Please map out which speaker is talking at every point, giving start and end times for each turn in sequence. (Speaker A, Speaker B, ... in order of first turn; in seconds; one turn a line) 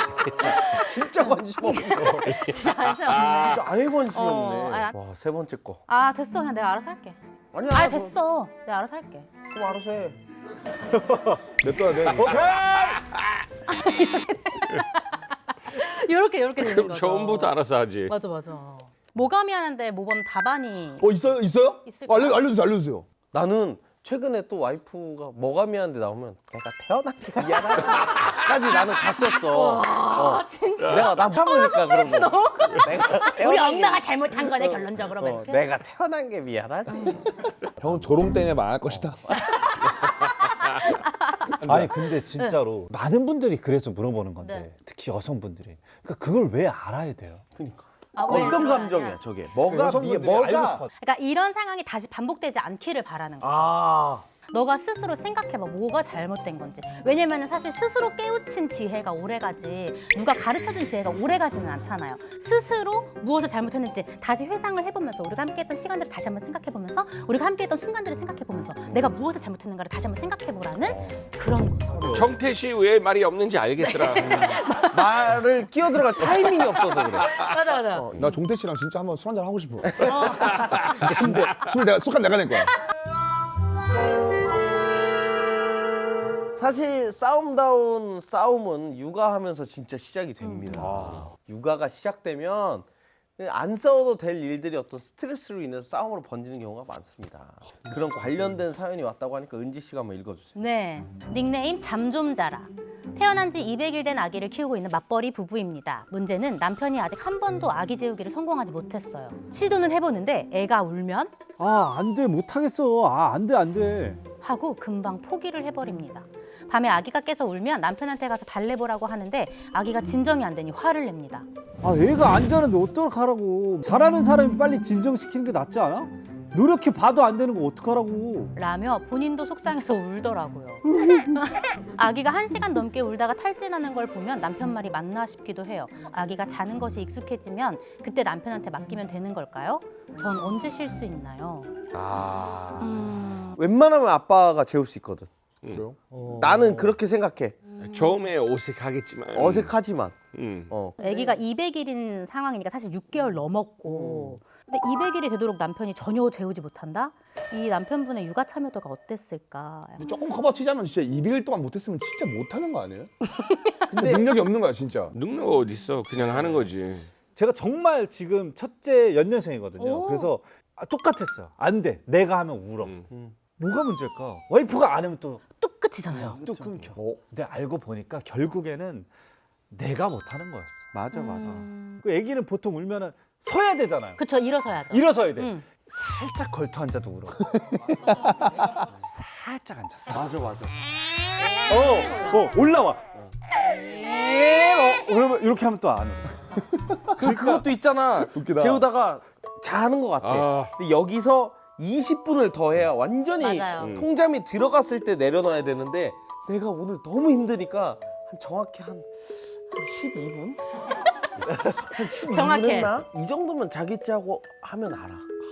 Speaker A: 0.3-0.5
Speaker B: 0.4-4.9
Speaker C: 0.4-2.4
Speaker A: 2.2-3.6
Speaker C: 3.3-5.8
Speaker B: 5.9-7.2
Speaker C: 7.5-8.2
Speaker B: 7.7-9.3
Speaker C: 9.5-10.2
Speaker D: 10.8-11.4
Speaker E: 11.6-12.6
Speaker D: 12.0-13.1
Speaker A: 12.9-13.2
Speaker B: 13.7-17.5
Speaker A: 16.6-18.1
Speaker B: 18.1-21.1
Speaker E: 20.9-23.1
Speaker B: 21.8-22.4
Speaker C: 23.3-37.3
Speaker B: 27.9-35.6
Speaker A: 30.8-31.1
Speaker B: 36.9-37.2
Speaker E: 37.8-39.5
Speaker C: 38.9-39.2
Speaker B: 39.4-42.6
Speaker E: 41.6-42.0
Speaker D: 41.6-47.4
Speaker B: 44.4-44.7
Speaker C: 47.5-50.8
Speaker B: 48.1-49.2
Speaker D: 49.7-50.9
Speaker B: 51.0-53.8
Speaker D: 53.4-54.3
Speaker B: 54.5-72.2
Speaker C: 70.9-71.2
Speaker D: 71.9-72.3
Speaker A: 72.1-74.6
Speaker B: 73.8-75.1
Speaker C: 74.3-77.4
Speaker B: 76.2-76.6
Speaker B: 77.2-78.0
Speaker A: 77.3-77.6
Speaker C: 77.9-78.3
Speaker E: 78.2-82.7
Speaker B: 80.0-80.5
Speaker D: 81.0-81.5
Speaker C: 86.5-100.5
Speaker B: 90.4-90.9
Speaker E: 90.7-91.3
Speaker B: 100.5-111.4
Speaker D: 111.6-114.2
Speaker B: 114.4-121.5
Speaker D: 121.8-128.5
Speaker B: 128.6-141.7
Speaker C: 141.9-145.3
Speaker B: 142.8-143.5
Speaker E: 145.7-146.0
Speaker D: 146.1-146.9
Speaker C: 146.3-147.6
Speaker A: 147.8-149.7
Speaker C: 149.3-150.2
Speaker A: 150.3-150.7
Speaker C: 150.7-151.3
Speaker B: 151.0-160.1
Speaker C: 153.9-154.3
Speaker E: 160.0-163.1
Speaker B: 163.4-163.8
Speaker C: 163.9-164.3
Speaker E: 163.9-165.1
Speaker A: 165.1-167.1
Speaker D: 167.3-173.0
Speaker B: 169.8-170.3
Speaker C: 173.1-173.3
Speaker D: 173.6-175.4
Speaker B: 175.6-176.4
Speaker C: 176.1-176.9
Speaker D: 176.2-179.1
Speaker E: 176.9-177.2
Speaker D: 179.7-180.9
Speaker C: 180.9-181.6
Speaker B: 181.1-182.0
Speaker D: 181.4-184.2
Speaker B: 184.2-185.7
Speaker D: 184.9-187.6
Speaker E: 188.1-188.5
Speaker D: 188.7-190.3
Speaker C: 190.1-190.7
Speaker B: 191.4-192.5
Speaker D: 191.7-193.0
Speaker D: 193.8-197.6
Speaker C: 197.2-210.6
Speaker E: 198.3-198.8
Speaker A: 200.2-200.7
Speaker B: 203.4-204.0
Speaker A: 203.8-204.1
Speaker C: 211.4-215.3
Speaker B: 211.9-213.0